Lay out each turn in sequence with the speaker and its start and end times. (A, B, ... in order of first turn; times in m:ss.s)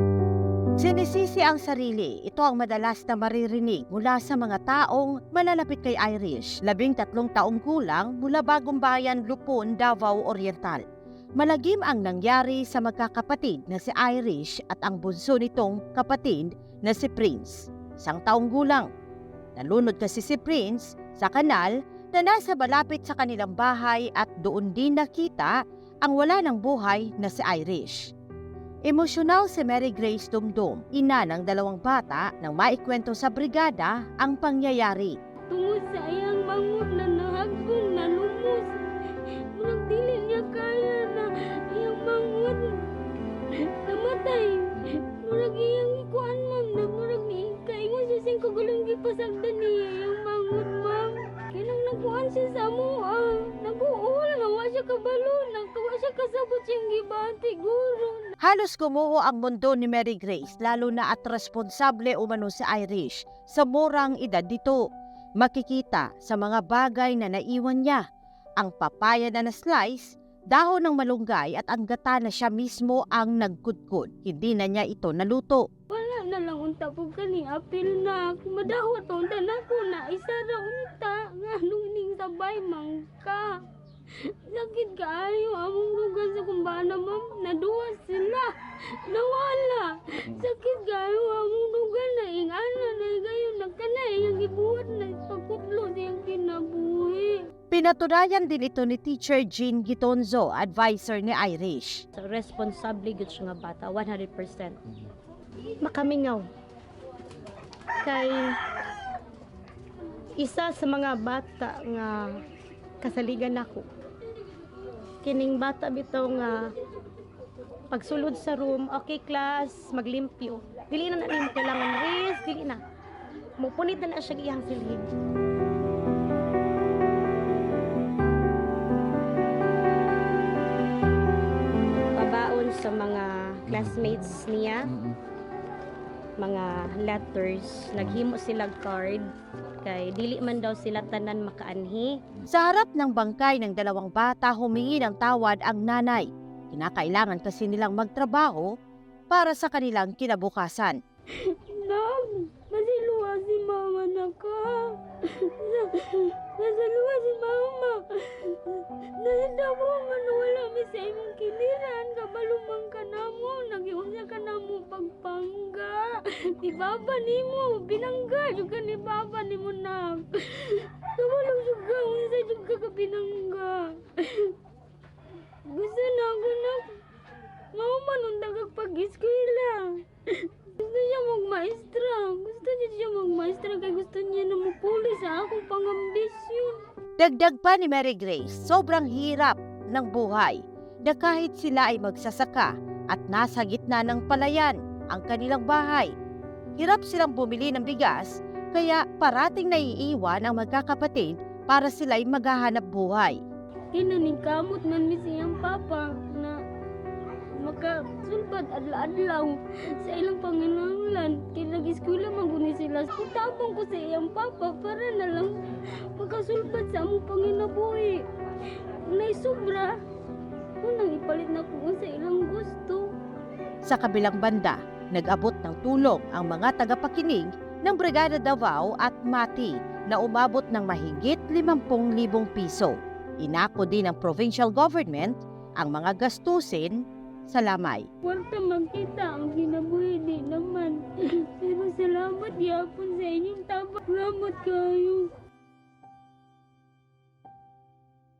0:00.8-0:10.8 A
0:11.4-0:18.9 A
0:19.6-0:25.5 A
0:26.0-0:28.1 A
0:28.9-0:35.1 A
0:35.5-0:38.7 B
0:39.5-0:42.8 B
0:43.8-0:58.3 B
0:58.4-1:04.8 A
1:05.4-1:08.0 A
1:08.6-1:15.6 A
1:15.9-1:23.6 B
1:24.2-1:37.4 B
1:37.7-1:42.0 A
1:42.2-1:44.8 C
1:45.8-1:46.5 C
1:48.0-1:48.6 C
1:50.4-1:52.3 C
1:53.0-1:53.8 C
1:55.2-1:56.6 C
1:57.9-2:02.8 C
2:03.6-2:05.1 C
2:12.2-2:14.9 C
2:16.4-2:19.2 C
2:19.8-2:22.1 C
2:22.5-2:28.7 A
2:29.3-2:31.0 A
2:31.4-2:54.5 B
2:55.6-2:57.0 B
2:57.7-3:06.8 B
3:07.2-3:16.1 A
3:16.8-3:23.4 A
3:23.9-3:26.6 B
3:27.6-3:38.2 B
3:38.9-3:40.0 B
3:40.8-3:43.1 B
3:43.8-3:58.0 A
3:58.2-4:05.3 B